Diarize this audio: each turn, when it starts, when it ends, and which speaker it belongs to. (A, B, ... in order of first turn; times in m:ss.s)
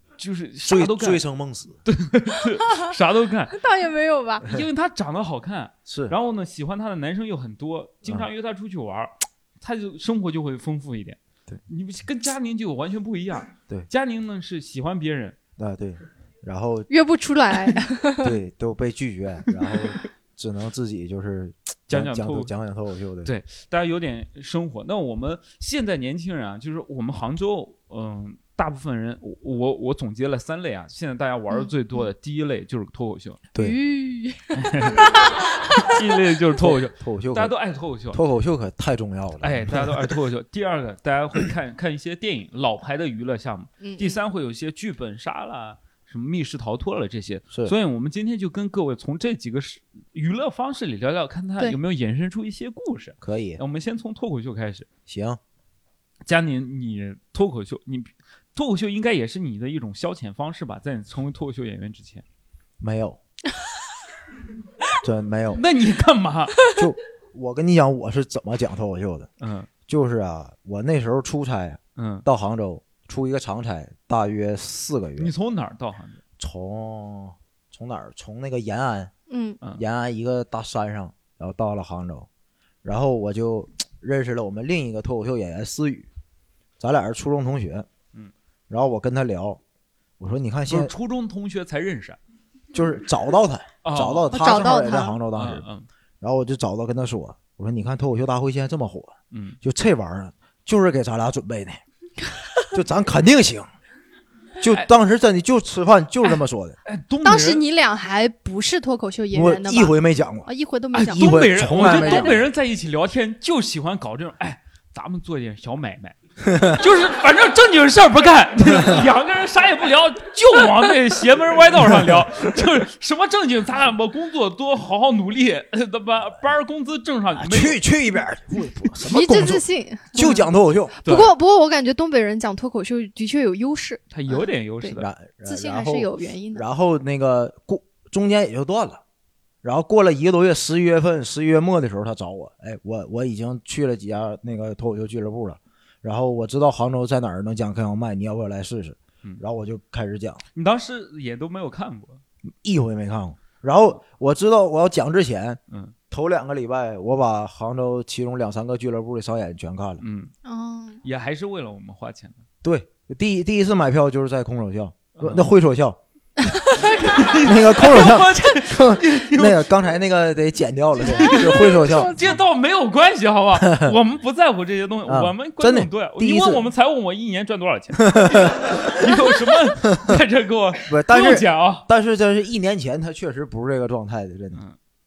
0:00.2-0:01.2 A
0:00.6-0:01.8 B
0:01.9-0:03.6 A
0:03.5-0:04.5 C
0:04.5-0:11.2 A
0:05.9-0:06.2 B
0:11.7-0:15.4 A
0:15.6-0:16.9 B
0:16.9-0:18.3 C
0:18.2-0:23.3 B
0:21.9-0:22.5 A
0:23.2-0:33.4 A
0:31.5-0:32.1 C
0:33.6-0:35.9 C
0:34.6-0:35.0 A
0:35.8-0:38.2 A
0:36.6-0:37.6 B
0:38.1-0:40.1 B
0:39.4-0:54.9 A
0:43.8-0:44.2 C
0:53.2-0:53.6 B
0:55.1-0:55.4 B
0:56.3-1:02.2 A
1:02.8-1:03.2 B
1:05.0-1:05.6 B
1:05.5-1:06.7 A
1:06.7-1:09.3 B
1:09.4-1:09.7 A
1:09.9-1:15.3 B
1:12.0-1:12.3 A
1:15.2-1:16.2 A
1:16.4-1:19.1 B
1:19.3-1:19.6 C
1:19.8-1:22.3 B
1:22.8-1:26.1 B
1:26.8-1:27.9 B
1:28.7-1:29.6 B
1:30.2-1:30.9 B
1:30.7-1:32.2 A
1:32.7-1:35.6 B
1:33.8-1:34.4 A
1:34.3-1:35.2 C
1:35.3-1:35.9 A
1:36.2-1:41.8 B
1:39.3-1:39.6 A
1:42.7-1:43.7 B
1:44.6-1:46.8 B
1:46.9-1:47.6 A
1:47.2-1:52.4 C
1:49.3-1:50.5 B
1:50.9-1:56.2 A
1:51.1-1:52.4 B
1:56.7-2:07.8 A
2:07.4-2:11.0 B
2:09.0-2:10.4 C
2:11.0-2:16.6 C
2:11.0-2:11.3 A
2:14.1-2:15.1 A
2:14.9-2:19.0 B
2:19.6-2:30.4 B
2:30.6-2:32.2 A
2:32.6-2:35.6 B
2:35.7-2:35.9 A
2:36.1-2:40.0 B
2:40.0-2:40.3 A
2:40.4-2:41.0 C
2:41.0-2:42.4 A
2:42.6-2:46.0 B
2:45.2-2:45.5 A
2:46.5-2:47.4 C
2:47.0-2:49.8 A
2:47.4-2:52.3 B
2:51.1-2:52.1 C
2:51.1-3:01.9 A
2:53.6-2:54.0 B
2:55.0-2:56.7 B
2:58.2-2:58.5 B
3:00.9-3:04.6 B